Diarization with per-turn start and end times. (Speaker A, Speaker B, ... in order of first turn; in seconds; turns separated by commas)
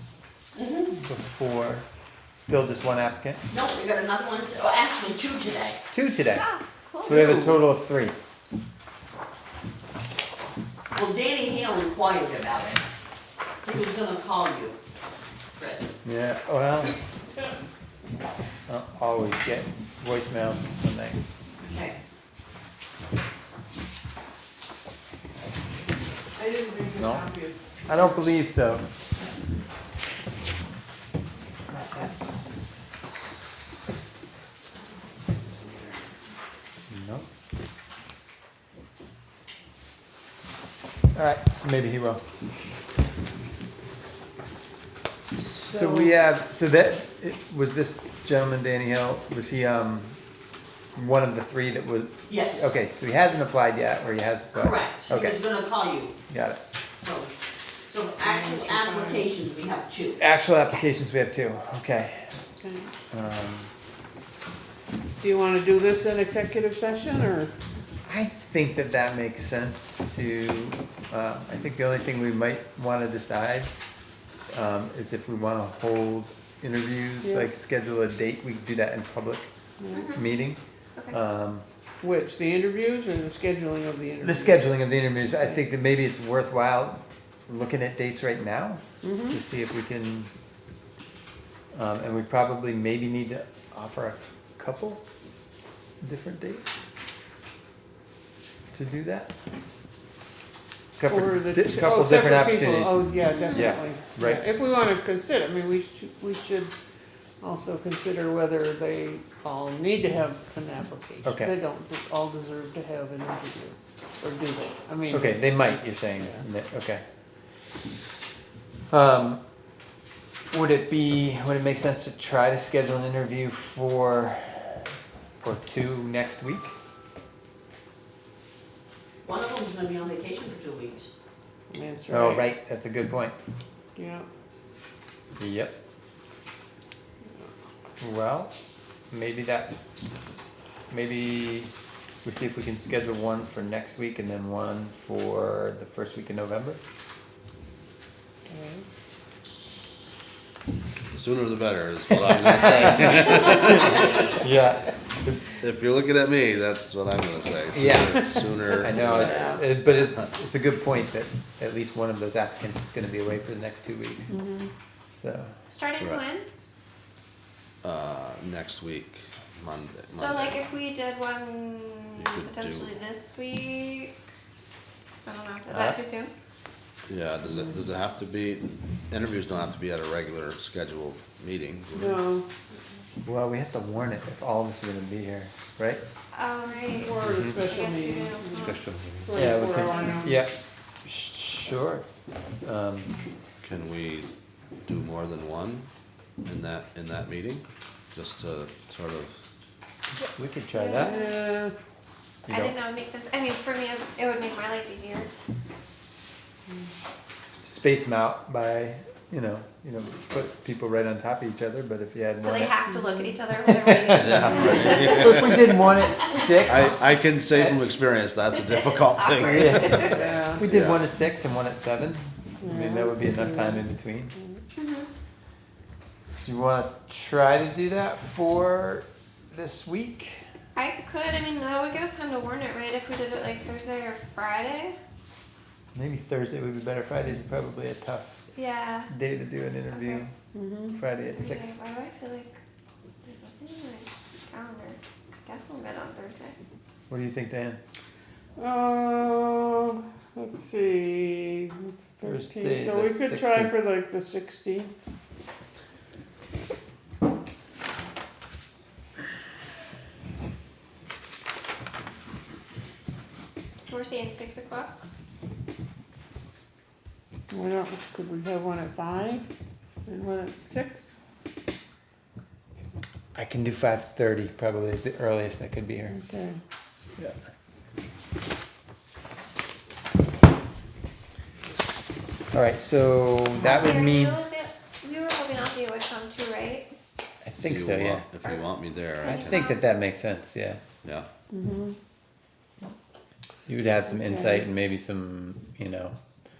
Speaker A: 0.6-1.0, Speaker B: 1.0-3.4, Speaker A: 3.5-5.8, Speaker B: 5.9-6.5, Speaker C: 6.3-7.5, Speaker B: 7.0-8.2, Speaker D: 7.1-7.5, Speaker A: 10.9-12.8, Speaker A: 13.6-14.8, Speaker A: 15.6-15.9, Speaker B: 16.0-16.9, Speaker B: 18.7-21.2, Speaker A: 21.6-22.0, Speaker D: 26.4-27.6, Speaker B: 26.9-28.9, Speaker B: 31.7-33.3, Speaker B: 36.9-37.3, Speaker B: 41.1-42.2, Speaker D: 45.4-46.1, Speaker B: 45.7-50.2, Speaker B: 51.0-55.4, Speaker A: 52.3-52.7, Speaker A: 54.6-56.1, Speaker B: 56.3-56.6, Speaker A: 57.0-57.3, Speaker A: 57.9-60.2, Speaker D: 58.2-59.3, Speaker B: 60.2-62.4, Speaker D: 62.6-62.9, Speaker B: 63.1-63.7, Speaker D: 65.2-67.5, Speaker B: 68.1-73.7, Speaker B: 74.5-79.5, Speaker D: 77.2-77.5, Speaker D: 79.8-80.1, Speaker C: 79.9-80.2, Speaker B: 80.1-80.6, Speaker B: 81.1-81.7, Speaker D: 82.0-84.7, Speaker B: 84.2-90.3, Speaker D: 89.0-89.4, Speaker B: 91.7-95.0, Speaker B: 96.0-96.7, Speaker B: 98.7-99.3, Speaker B: 101.0-104.4, Speaker D: 101.1-106.7, Speaker D: 107.4-115.8, Speaker B: 111.2-111.5, Speaker B: 115.1-117.0, Speaker B: 118.9-119.4, Speaker B: 120.5-124.9, Speaker B: 125.4-126.7, Speaker A: 129.2-131.1, Speaker D: 131.7-132.5, Speaker B: 132.1-133.4, Speaker D: 134.0-134.3, Speaker B: 135.4-135.8, Speaker B: 138.0-138.5, Speaker B: 139.1-139.7, Speaker B: 140.9-141.7, Speaker B: 142.2-146.8, Speaker D: 148.5-148.8, Speaker E: 151.1-154.2, Speaker B: 152.6-155.5, Speaker E: 155.6-160.3, Speaker B: 157.8-164.3, Speaker D: 159.0-159.6, Speaker D: 164.3-164.7, Speaker B: 165.2-165.5, Speaker C: 165.7-166.5, Speaker E: 167.8-170.7, Speaker C: 170.2-174.1, Speaker E: 172.2-172.9, Speaker C: 175.2-176.3, Speaker B: 175.7-176.0, Speaker E: 177.1-182.2, Speaker D: 182.0-182.5, Speaker B: 183.2-186.0, Speaker C: 186.3-188.8, Speaker D: 186.9-188.8, Speaker D: 189.3-190.4, Speaker B: 189.3-192.1, Speaker B: 192.6-193.1, Speaker E: 193.6-194.3, Speaker E: 194.8-195.9, Speaker E: 196.4-199.4, Speaker B: 200.2-201.2, Speaker C: 200.7-201.4, Speaker D: 200.9-201.7, Speaker B: 202.5-202.8, Speaker C: 202.5-205.3, Speaker B: 207.6-212.8, Speaker C: 212.4-215.6, Speaker D: 212.9-213.3, Speaker B: 213.7-217.8, Speaker E: 214.1-215.8, Speaker E: 216.7-221.1, Speaker C: 218.5-220.3, Speaker B: 219.4-224.3, Speaker D: 220.1-220.6, Speaker D: 222.6-223.8, Speaker C: 224.8-225.1, Speaker B: 226.4-230.4, Speaker C: 230.8-235.0, Speaker B: 235.9-238.4, Speaker C: 238.5-239.1, Speaker B: 239.1-240.3, Speaker C: 239.9-240.2, Speaker D: 240.5-241.0, Speaker B: 240.9-241.8, Speaker C: 241.3-242.6, Speaker C: 243.2-246.6, Speaker B: 247.1-247.8, Speaker D: 248.6-254.9, Speaker B: 252.2-253.8, Speaker C: 263.9-265.0, Speaker D: 267.5-269.5, Speaker D: 270.1-271.1, Speaker B: 273.4-276.2, Speaker D: 276.1-276.6, Speaker B: 282.5-284.4, Speaker C: 283.6-286.9, Speaker B: 287.4-288.2, Speaker E: 287.6-289.6, Speaker C: 289.2-289.8, Speaker B: 289.2-290.8, Speaker D: 291.5-292.0, Speaker B: 293.7-296.2